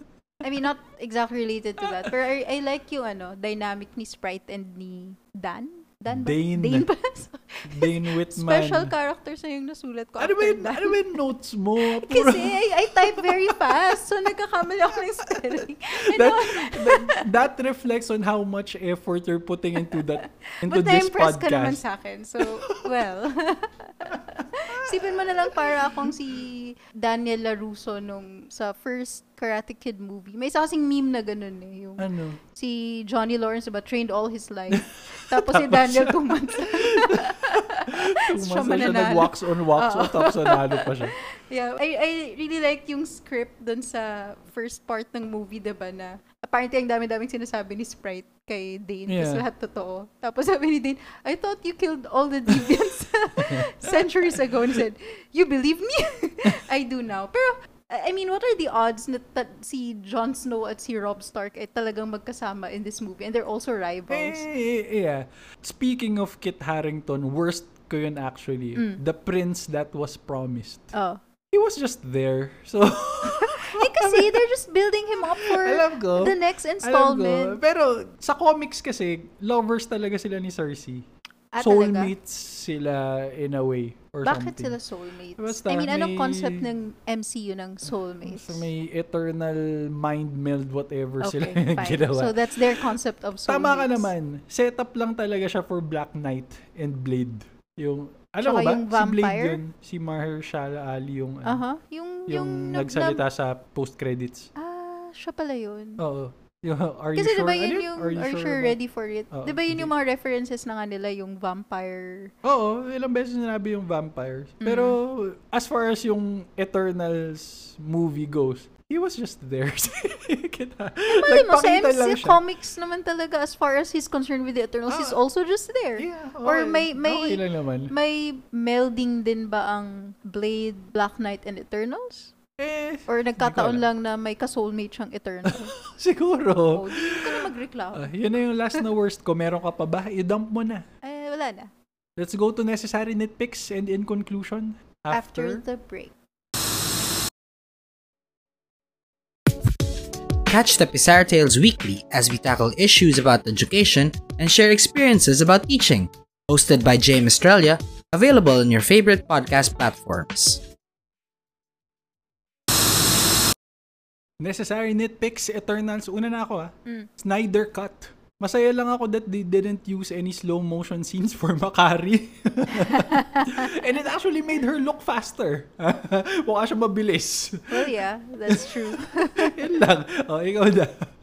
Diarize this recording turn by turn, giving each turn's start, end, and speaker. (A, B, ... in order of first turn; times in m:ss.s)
0:00.4-0:11.2 A
0:06.1-0:06.9 B
0:07.6-0:08.9 B
0:10.2-0:13.7 B
0:11.8-0:17.3 A
0:15.3-0:21.8 B
0:19.8-1:04.4 A
0:22.4-0:22.9 B
0:24.1-0:26.1 B
0:32.0-0:32.4 B
0:34.7-0:41.1 B
0:49.1-0:49.4 B
0:53.4-0:54.8 B
1:04.1-1:10.9 B
1:10.9-1:11.2 A
1:11.5-1:14.4 B
1:13.2-1:17.6 A
1:15.2-1:21.0 B
1:21.5-1:22.1 A
1:21.6-1:24.8 B
1:24.2-1:28.6 A
1:25.4-1:26.7 B
1:28.2-1:32.8 B
1:31.2-1:34.1 A
1:33.5-1:41.6 B
1:38.4-1:39.6 A
1:41.4-1:43.2 A
1:42.3-1:44.5 B
1:44.6-1:46.0 A
1:46.0-1:48.8 B
1:47.2-1:52.3 A
1:49.3-1:49.9 B
1:52.4-2:02.4 B
1:54.6-1:55.0 A
2:01.1-2:12.3 A
2:04.9-2:05.2 B
2:06.0-2:07.9 B
2:12.6-2:13.8 B
2:13.1-2:15.7 A
2:15.4-2:20.8 B
2:16.7-2:18.1 A
2:21.0-2:21.7 A
2:22.2-2:25.6 B
2:25.1-2:26.1 A
2:30.5-2:40.6 C
2:44.4-2:57.9 B
2:52.7-2:53.7 A
2:57.7-2:59.7 A
2:58.5-3:01.1 B